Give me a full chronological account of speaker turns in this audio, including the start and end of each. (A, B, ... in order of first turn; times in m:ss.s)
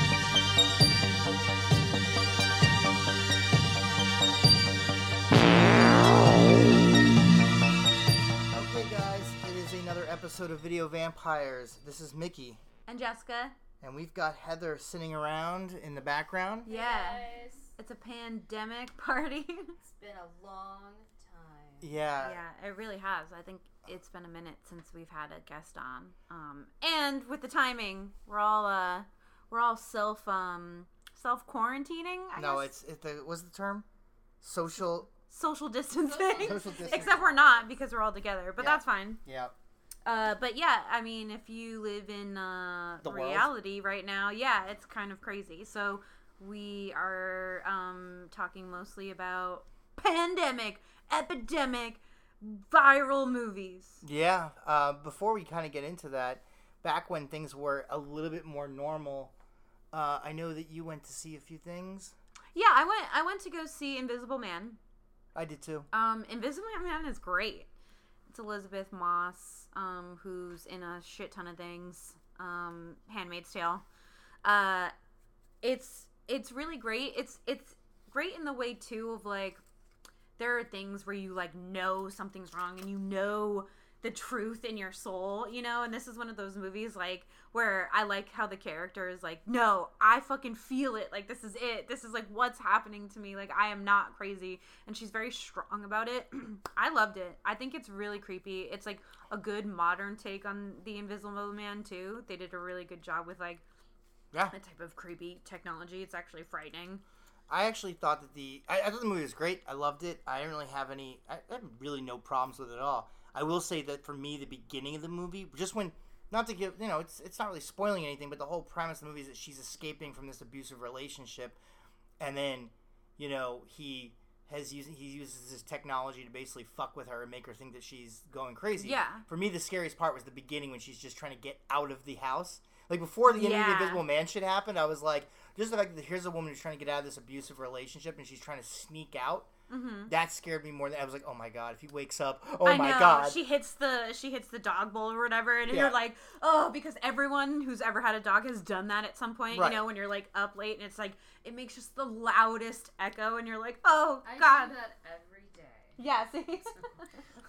0:08.5-0:12.6 A
0:12.9-0:13.5 B
0:13.8-0:16.7 A
0:16.6-0:17.7 C
0:16.6-0:17.2 B
0:17.8-0:19.8 B
0:19.8-0:21.9 C
0:21.8-0:22.4 A
0:22.2-0:32.7 B
0:32.4-0:33.8 A
0:34.4-0:35.1 A
0:35.3-0:39.2 B
0:36.0-0:37.7 C
0:36.4-0:37.2 A
0:38.6-0:39.5 A
0:40.0-0:54.0 B
0:43.0-0:43.5 A
0:54.0-0:59.3 A
0:59.9-1:02.2 A
1:02.5-1:04.8 B
1:05.3-1:05.9 A
1:05.9-1:07.7 B
1:08.3-1:13.8 B
1:14.4-1:14.9 B
1:15.6-1:19.6 B
1:20.4-1:43.6 B
1:44.5-1:47.0 B
1:47.5-2:01.6 A
2:02.2-2:19.5 A
2:08.8-2:09.2 B
2:13.2-2:14.0 B
2:19.7-2:20.1 B
2:20.1-2:23.4 A
2:22.6-2:34.7 B
2:25.7-2:25.9 A
2:29.5-2:29.8 A
2:34.2-2:36.0 C
2:36.0-2:36.9 B
2:36.7-2:37.0 C